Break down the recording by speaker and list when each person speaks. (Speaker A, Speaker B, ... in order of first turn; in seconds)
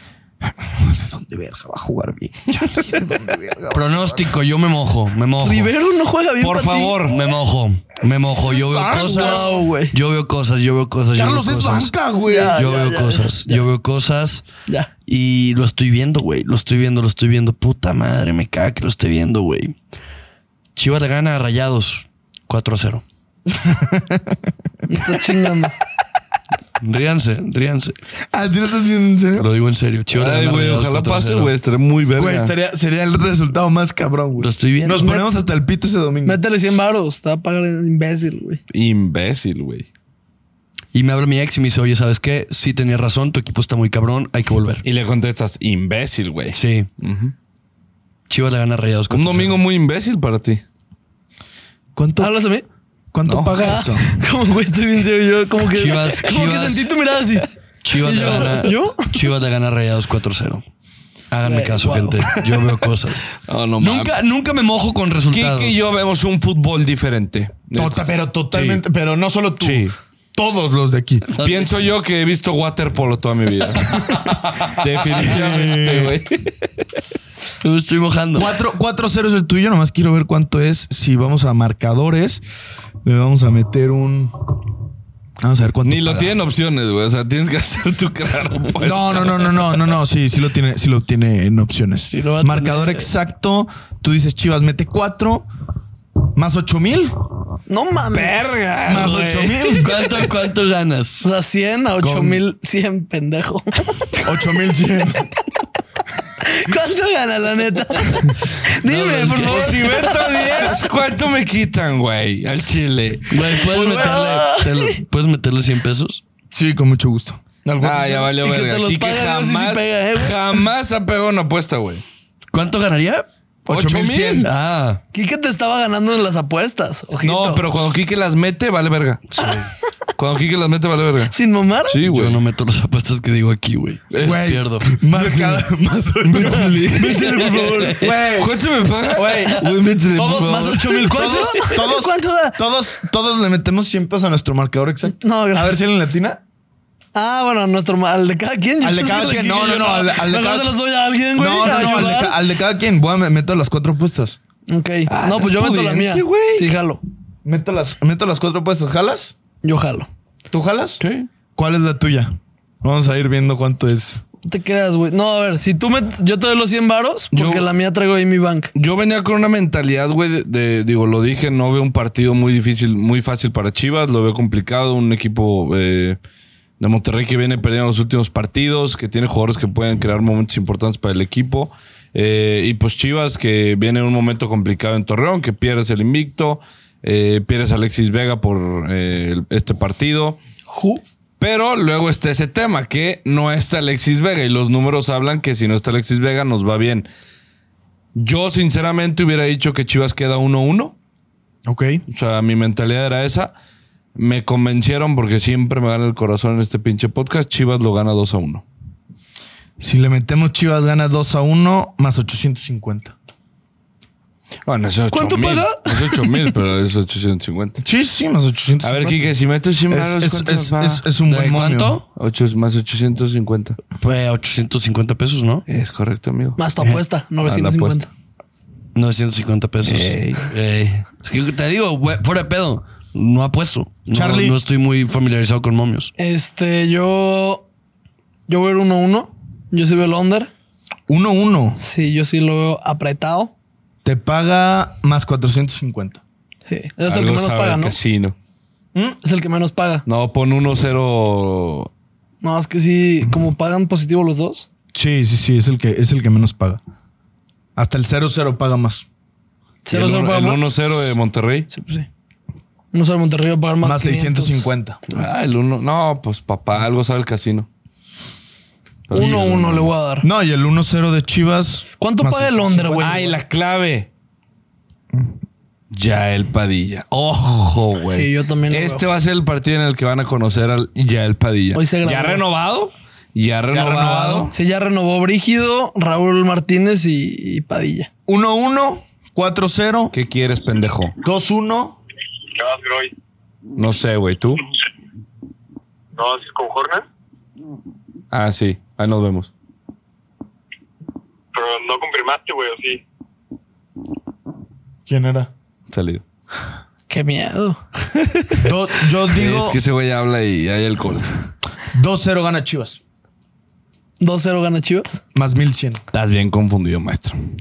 Speaker A: 0.4-4.3, 8.5-9.7, 11.1-12.6, 23.5-24.4, 28.3-29.5, 32.1-36.4, 52.0-52.3, 53.1-54.1, 67.7-71.3, 75.2-76.1, 78.3-82.4, 83.0-84.5, 85.4-86.4, 88.8-95.5, 96.3-97.2, 98.8-100.0, 102.0-102.4, 104.2-105.3, 116.5-118.3, 123.7-124.5, 134.2-137.4, 138.0-146.4, 148.8-150.8, 151.3-154.4, 155.2-155.6, 157.4-159.3, 160.5-161.0, 161.6-164.2, 201.7-202.0, 209.8-213.1, 217.8-219.2, 219.9-222.0, 234.1-234.6, 241.1-241.8, 244.0-246.2, 254.9-256.8, 257.8-259.0, 263.8-265.0, 270.2-273.4, 283.7-284.5, 288.3-290.1, 291.2-292.0, 305.1-305.5, 308.6-309.8, 311.9-313.0, 315.3-316.0
Speaker B: 3.7-5.7, 7.0-11.9, 12.5-14.4, 15.1-19.8, 20.8-23.0, 26.8-27.9, 29.4-31.5, 34.4-35.0, 40.9-44.8, 46.5-46.9, 48.3-49.6, 55.7-56.9, 57.8-60.6, 61.3-65.8, 71.3-71.7, 77.6-78.5, 99.8-101.3, 113.3-116.2, 122.5-125.0, 132.0-135.2, 137.6-137.8, 221.3-222.0, 224.0-225.6, 228.9-236.1
Speaker C: 5.4-7.0, 8.9-9.9, 12.2-13.6, 24.9-25.7, 35.0-35.3, 36.2-38.6, 52.2-52.6, 53.6-59.3, 61.4-62.4, 92.1-93.1, 97.7-100.1, 101.2-104.5, 106.4-110.8, 113.7-115.0, 118.3-120.6, 125.1-127.6, 131.3-132.0, 136.9-138.1, 140.3-142.6, 145.2-145.8, 147.1-152.4, 154.7-157.0, 159.6-160.1, 164.4-168.7, 190.7-191.0, 215.1-216.5, 226.6-228.1, 236.2-237.7, 238.5-240.5, 241.8-243.5, 246.7-247.9, 249.2-250.1, 252.4-254.7, 259.9-260.7, 261.7-262.1, 262.9-264.5, 269.1-270.3, 272.0-273.3, 278.1-279.1, 281.7-282.4, 284.5-288.1, 307.1-307.8, 314.2-315.2
Speaker D: 6.4-7.2, 30.1-32.5, 38.7-39.9, 44.8-47.3, 49.1-50.6, 53.2-53.8, 63.4-64.2, 65.3-68.8, 69.6-69.9, 71.4-76.5, 85.8-89.8, 98.1-99.3, 108.8-114.0, 117.8-122.0, 123.7-124.4, 127.2-129.6, 130.2-131.3, 131.8-132.4, 134.1-134.4, 136.2-141.3, 155.1-156.7, 161.0-161.3, 167.3-167.7, 168.7-176.2, 176.8-190.4, 191.4-197.1, 198.1-200.9, 202.1-203.5, 204.2-208.6, 214.7-217.8, 218.8-221.0, 222.1-223.8, 225.7-226.9, 227.4-228.0, 229.8-230.5, 247.1-248.3, 250.1-251.9, 259.9-261.7, 265.1-267.7, 269.1-269.9, 273.0-274.1, 275.9-284.5, 290.1-291.1, 293.8-294.6, 298.3-299.5, 305.9-306.2, 309.3-311.3, 316.1-317.4
Speaker E: 292.5-293.1, 296.1-297.0, 301.5-303.0